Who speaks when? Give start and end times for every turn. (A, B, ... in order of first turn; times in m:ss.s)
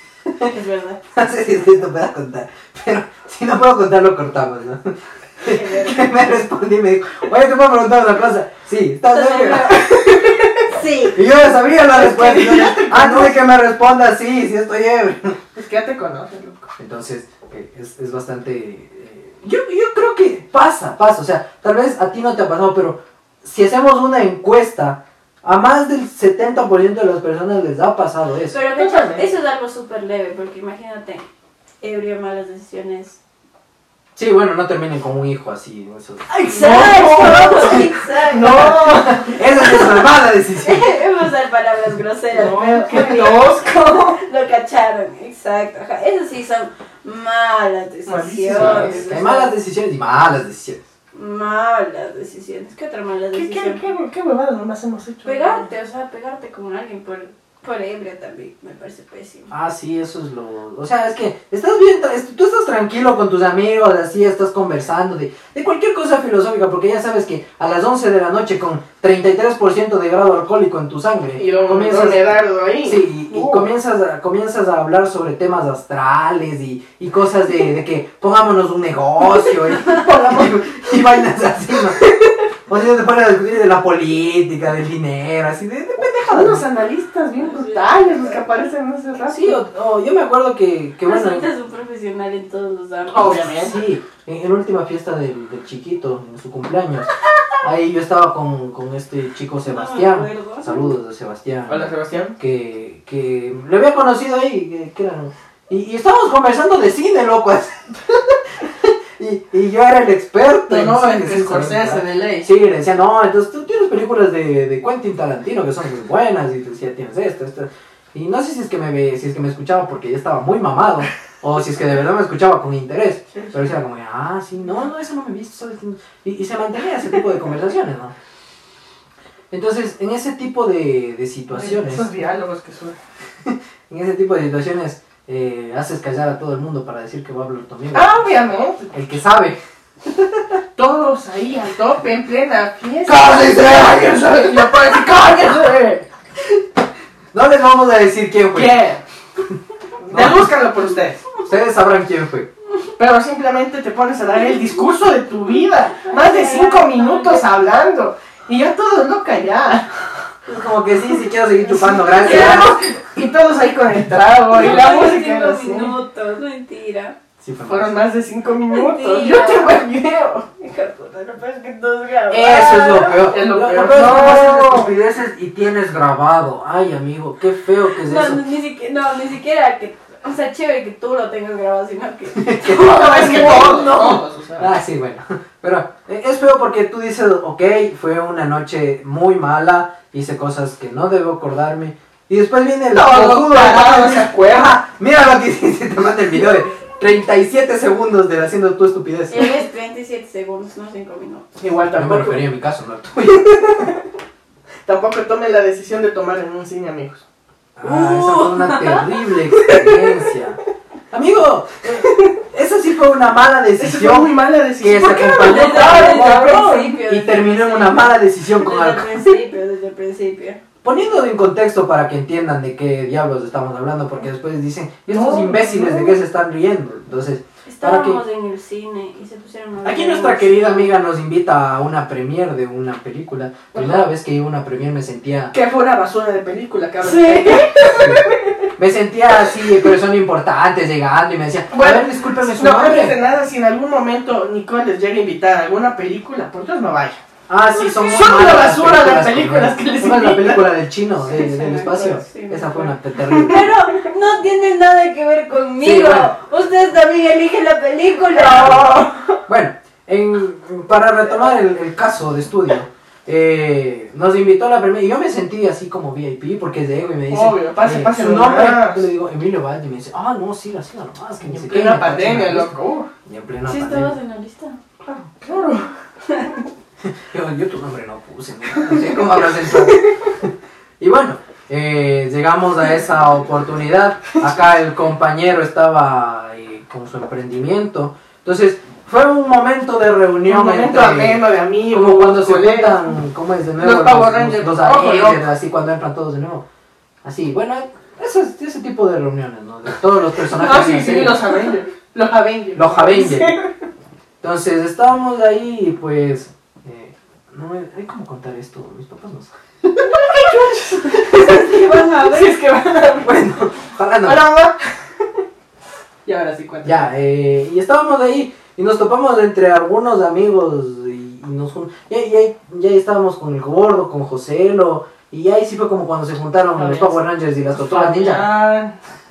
0:00.3-0:00.5 A
0:00.4-0:01.0 B
0:01.1-0:15.4 A
0:05.4-0:06.1 B
0:09.1-0:09.9 B
0:10.7-0:11.2 B
0:11.9-0:13.4 C
0:15.6-0:16.7 C
0:16.8-0:28.6 A
0:28.5-0:31.3 B
0:28.7-0:29.3 C
0:31.8-0:33.2 B
0:34.2-0:37.9 A
0:36.3-0:39.0 B
0:36.5-0:39.3 C
0:38.7-0:40.9 A
0:39.6-0:40.0 B
0:40.6-0:49.6 B
0:42.3-0:44.2 C
0:48.1-0:49.1 C
0:48.5-0:50.8 A
0:51.1-0:53.8 B
0:53.3-0:55.7 C
0:55.2-0:59.5 B
0:59.5-1:22.1 A
1:11.4-1:13.7 C
1:19.8-1:20.2 B
1:22.7-1:26.6 A
1:26.2-1:29.6 C
1:27.4-1:28.5 B
1:29.3-1:31.5 A
1:31.0-1:33.4 B
1:33.1-1:33.8 C
1:33.5-2:08.1 A
1:39.7-1:40.9 B
1:41.7-1:42.4 C
1:50.7-1:52.5 C
2:09.5-2:12.1 A
2:11.5-2:13.0 C
2:13.4-2:18.2 A
2:17.9-2:18.9 C
2:18.9-2:19.6 A
2:20.1-2:20.4 A
2:20.8-2:26.1 C
2:23.1-2:24.9 A
2:27.3-2:28.8 A
2:28.5-2:29.0 C
2:30.0-2:31.2 C
2:30.1-2:30.5 A
2:31.4-2:32.5 A
2:33.0-2:39.9 C
2:36.1-2:37.4 B
2:40.5-2:42.8 A
2:41.8-2:46.0 C
2:44.5-2:47.2 B
2:47.4-2:48.0 A
2:47.7-2:50.5 C
2:48.7-2:49.8 B
2:50.6-2:53.3 B
2:52.3-2:58.4 A
2:53.2-2:54.9 C
2:58.0-3:04.0 B
3:02.4-3:19.6 A
3:02.7-3:04.7 C
3:12.9-3:14.7 C
3:19.3-3:21.5 B
3:21.6-3:22.4 C
3:22.0-3:23.9 A
3:24.8-3:27.2 C
3:27.8-3:30.6 A
3:27.8-3:29.1 B
3:31.1-3:39.4 A
3:33.8-3:36.7 C
3:35.3-3:40.6 B
3:40.8-3:48.2 A
3:45.1-3:46.2 C
3:47.7-3:50.8 B
3:49.8-3:50.8 C
3:50.1-3:55.5 A
3:53.7-3:54.1 C
3:55.5-3:58.4 C
3:57.0-3:57.9 B
3:57.8-4:03.2 A
4:01.7-4:07.2 C
4:07.5-4:13.7 A
4:07.7-4:10.7 C
4:11.3-4:12.9 B
4:13.3-4:13.7 C
4:13.5-4:18.9 B
4:15.8-4:16.4 A
4:18.3-4:19.4 C
4:18.6-4:18.9 A
4:19.5-4:34.2 A
4:27.3-4:29.1 C
4:31.4-4:33.1 C
4:33.7-4:34.8 B
4:35.4-4:35.9 C
4:37.3-4:40.5 A
4:41.0-4:56.6 A
4:50.5-4:53.1 C
4:53.8-4:55.4 C
4:57.2-5:01.5 A
5:00.5-5:03.7 C
5:02.8-5:03.6 A
5:04.4-5:10.2 A
5:10.1-5:13.4 C
5:11.3-5:12.6 B
5:13.2-5:14.5 A
5:14.2-5:14.8 C
5:16.2-5:17.1 C
5:16.8-5:28.5 A
5:26.8-5:27.1 C
5:27.7-5:29.0 C